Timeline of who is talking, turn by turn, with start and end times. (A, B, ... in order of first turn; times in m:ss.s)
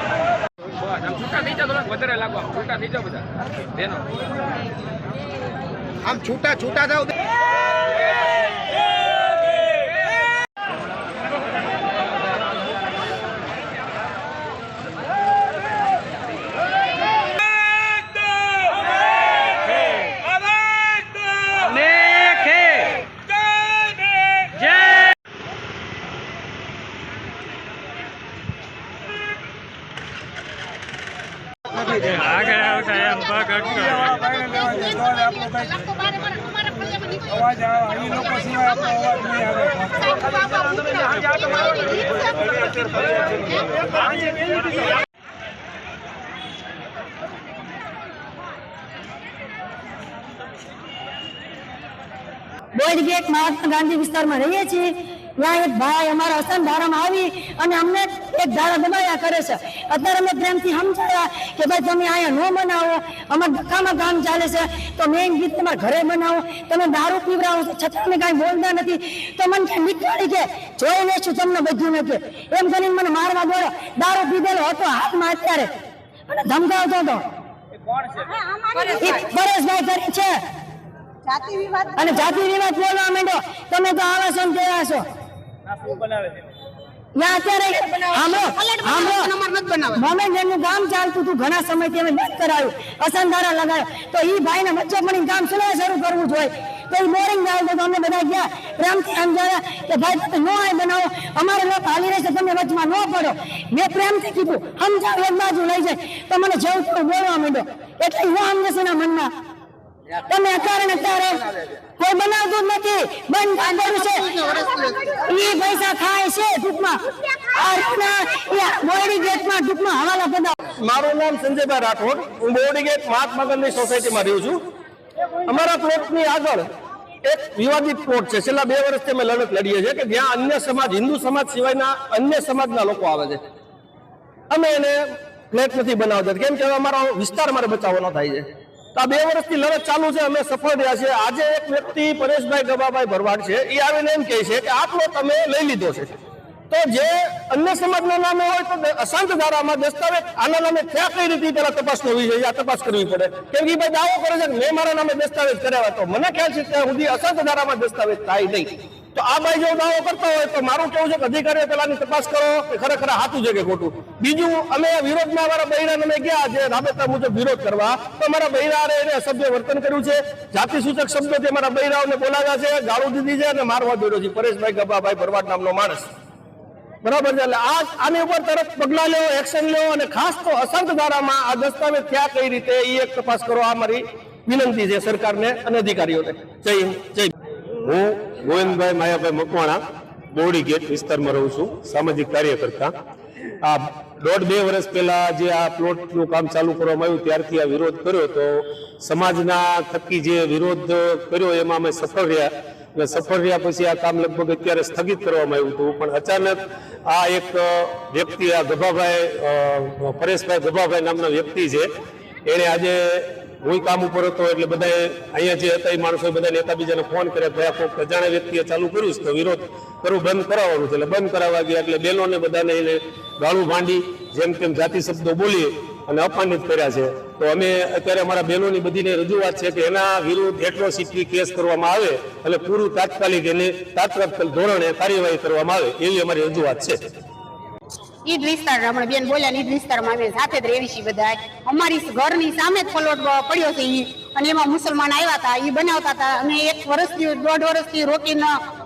0:00.9-0:03.2 A
0:03.8-0:04.0 A
0:32.1-0:34.1 A
0:52.8-1:15.7 B
1:16.3-1:17.2 B
1:18.2-1:19.0 C
1:18.8-1:20.4 B
1:21.2-1:22.1 C
1:22.0-1:25.1 B
1:27.2-1:29.3 B
1:28.1-1:30.0 C
1:30.0-1:49.3 B
1:50.2-1:51.4 B
1:52.0-2:00.6 B
1:54.3-1:55.1 C
2:00.8-2:04.6 D
2:05.5-2:06.7 D
2:07.2-2:13.4 D
2:14.5-2:26.2 D
2:26.7-2:56.1 D
2:57.0-3:07.3 D
3:07.8-3:09.8 E
3:10.3-3:12.9 E
3:13.6-3:31.9 E
3:32.5-3:57.0 E
3:58.3-4:08.6 C